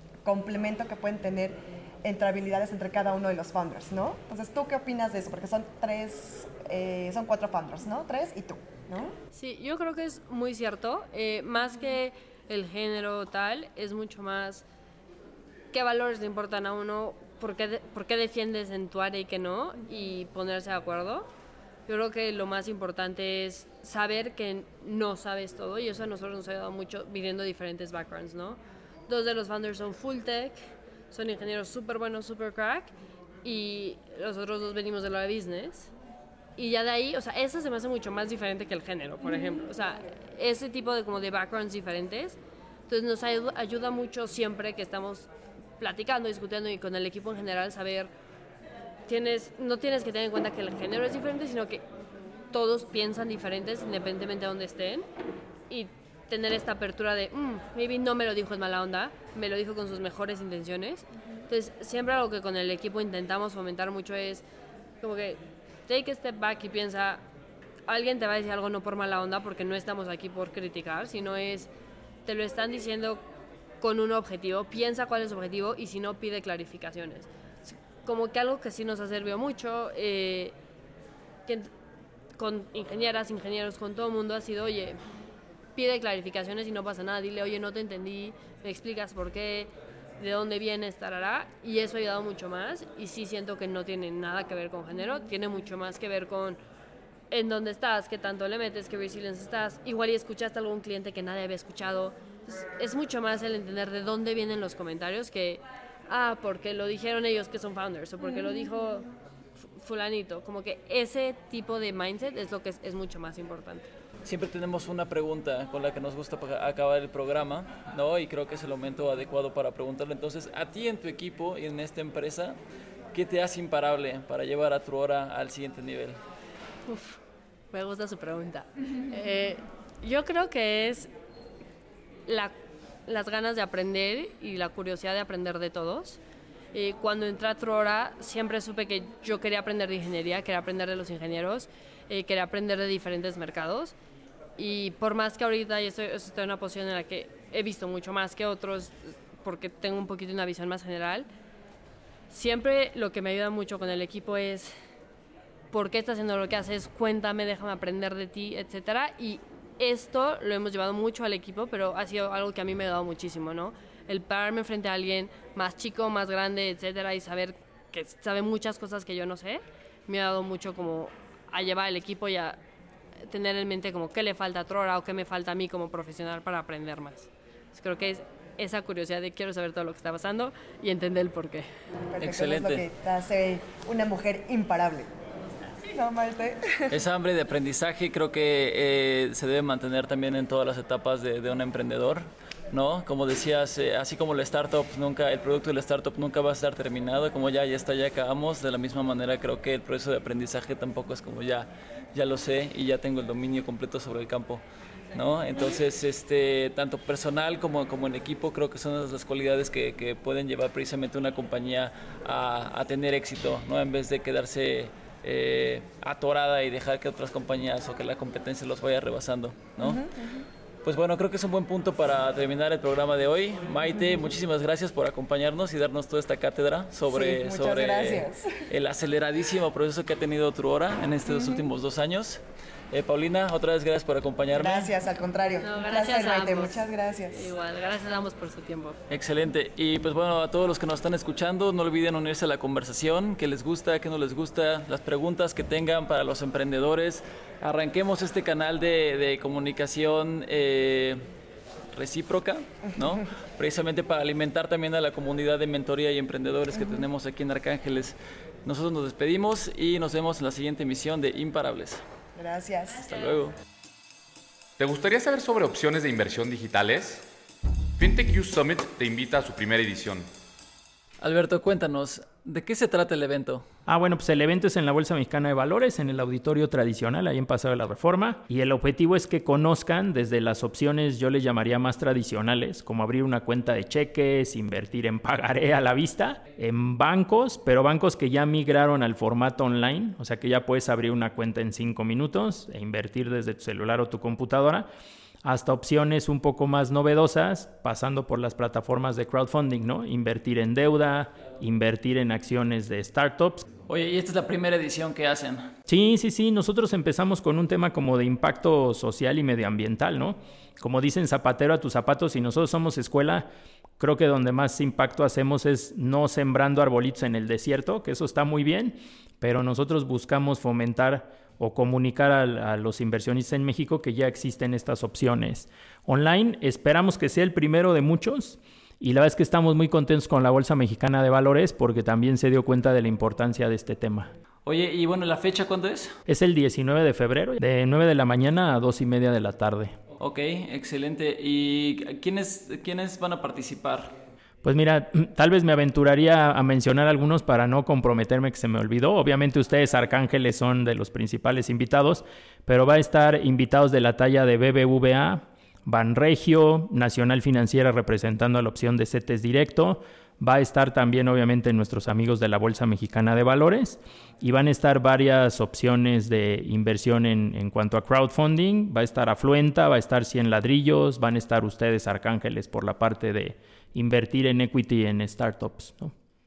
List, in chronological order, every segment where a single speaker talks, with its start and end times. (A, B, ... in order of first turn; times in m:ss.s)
0:00.2-0:09.2 A
0:09.3-0:14.6 B
0:15.7-0:21.3 B
0:21.9-0:30.6 B
0:31.1-0:32.9 B
0:33.4-0:35.9 B
0:36.6-0:48.1 B
0:49.1-0:51.8 B
0:52.5-0:55.0 B
0:55.7-1:04.4 B
1:05.0-1:07.2 B
1:07.9-1:11.7 B
1:12.2-1:13.2 B
1:13.8-1:20.5 B
1:22.4-1:25.0 B
1:25.8-1:36.6 B
1:37.3-1:53.9 B
1:54.2-2:02.6 C
2:03.1-2:06.2 C
2:06.9-2:07.2 B
2:07.7-2:11.1 B
2:12.3-2:12.5 B
2:13.0-2:16.2 B
2:16.7-2:23.9 B
2:24.6-2:31.3 B
2:32.3-2:34.7 B
2:35.7-2:52.6 B
2:53.3-3:01.7 B
3:02.1-3:05.1 A
3:02.2-3:02.8 C
3:05.8-3:07.0 A
3:06.9-3:40.1 C
3:39.8-3:40.4 A
3:40.8-3:54.9 C
3:47.1-3:48.7 A
3:51.3-3:51.6 A
3:54.5-3:57.5 A
3:55.6-3:59.0 B
3:59.1-4:11.2 C
4:11.9-4:22.0 C
4:22.3-4:23.1 A
4:22.9-4:23.5 C
4:24.8-4:27.2 D
4:28.0-4:30.3 D
4:31.2-4:33.6 C
4:33.9-4:54.9 E
4:55.4-5:03.7 E
5:03.9-5:05.7 C
5:05.9-5:13.5 E
5:14.0-5:34.3 E
5:34.6-5:36.1 C
5:36.3-5:40.0 E
5:40.2-5:44.1 C
5:44.6-6:16.1 E